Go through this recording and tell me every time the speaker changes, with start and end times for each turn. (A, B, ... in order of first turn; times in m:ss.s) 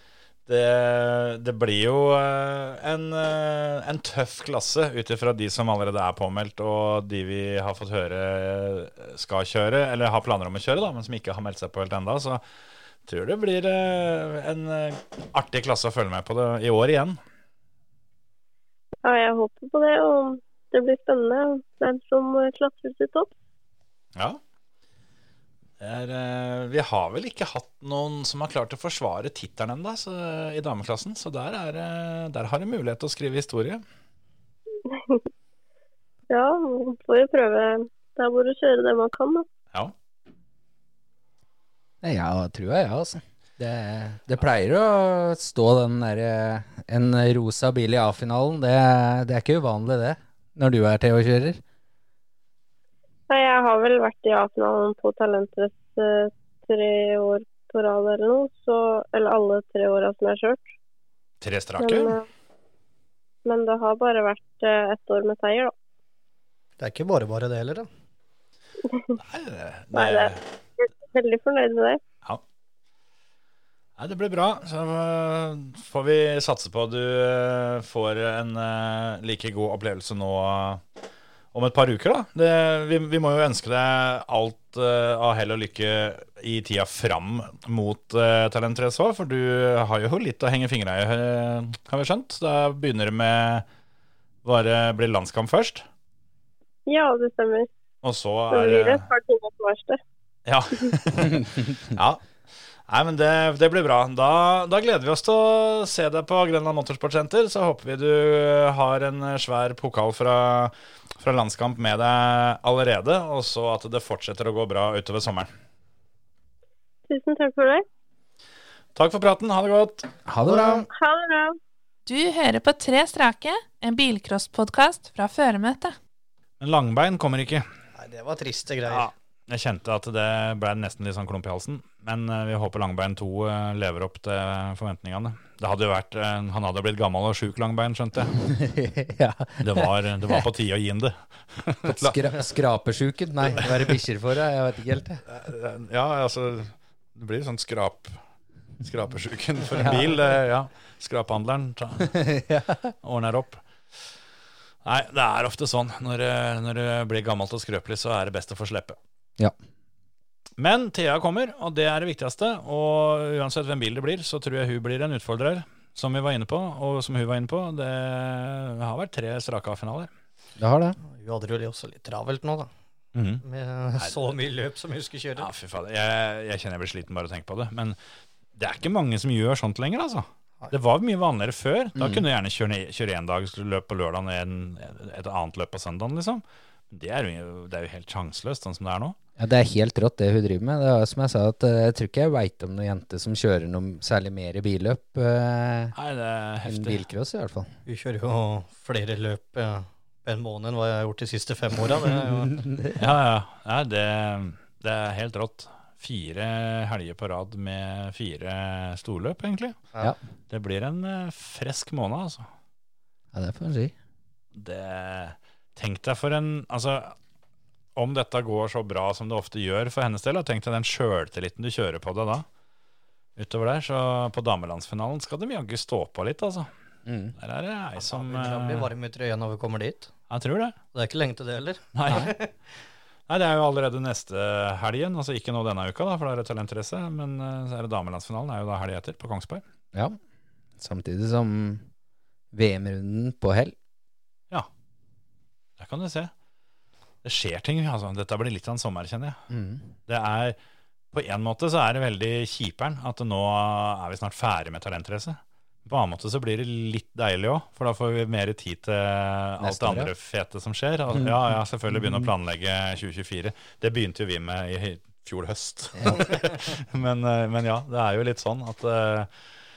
0:00.5-0:12.4 A
0:13.0-0:17.2 A
0:19.0-0:23.3 B
0:25.8-0:33.8 A
0:34.9-0:35.2 B
0:36.3-0:39.4 B
0:42.0-0:51.6 C
0:53.3-1:00.6 B
1:01.4-1:02.2 A
1:01.8-1:02.2 B
1:03.4-1:05.7 B
1:06.8-1:07.9 D
1:09.2-1:10.4 A
1:09.9-1:12.0 B
1:14.0-1:20.8 A
1:21.5-1:33.6 A
1:34.4-1:35.8 A
1:36.9-1:37.7 B
1:38.0-1:39.0 A
1:38.5-1:40.0 B
1:40.4-1:42.2 A
1:42.9-1:55.5 A
1:57.1-1:57.8 B
1:59.0-2:00.1 A
2:00.3-2:00.9 C
2:00.4-2:00.8 D
2:00.9-2:01.6 B
2:02.0-2:06.0 E
2:06.6-2:07.6 A
2:08.0-2:09.1 D
2:08.9-2:18.3 A
2:18.4-2:20.4 C
2:19.6-2:22.2 A
2:21.8-2:25.2 C
2:25.3-2:28.2 A
2:28.8-2:32.2 A
2:29.8-2:30.1 C
2:32.4-2:32.9 C
2:33.0-2:33.6 A
2:34.8-2:39.0 A
2:40.6-2:50.1 A
2:50.6-2:51.0 C
2:51.0-2:52.7 D
2:53.1-2:53.4 A
2:53.4-2:55.5 D
2:55.4-2:58.0 A
2:58.6-3:09.2 A
3:02.0-3:02.2 C
3:09.4-3:15.9 C
3:15.9-3:17.0 A
3:16.6-3:17.7 C
3:17.9-3:22.6 D
3:22.5-3:23.0 C
3:23.0-3:29.8 A
3:30.5-3:32.5 A
3:33.3-3:33.9 C
3:34.6-3:37.1 A
3:38.0-3:42.4 A
3:43.4-3:46.7 A
3:47.0-3:47.3 C
3:47.4-3:48.9 A
3:48.0-3:50.1 D
3:50.3-3:50.7 A
3:50.9-3:52.4 D
3:51.9-3:52.3 A
3:53.3-3:59.6 A
4:00.8-4:01.8 C
4:02.5-4:03.7 C
4:05.8-4:06.3 A
4:07.2-4:09.4 A
4:09.5-4:09.8 C
4:10.1-4:10.6 A
4:11.1-4:29.3 A
4:19.6-4:20.1 C
4:21.9-4:22.3 C
4:26.0-4:26.3 C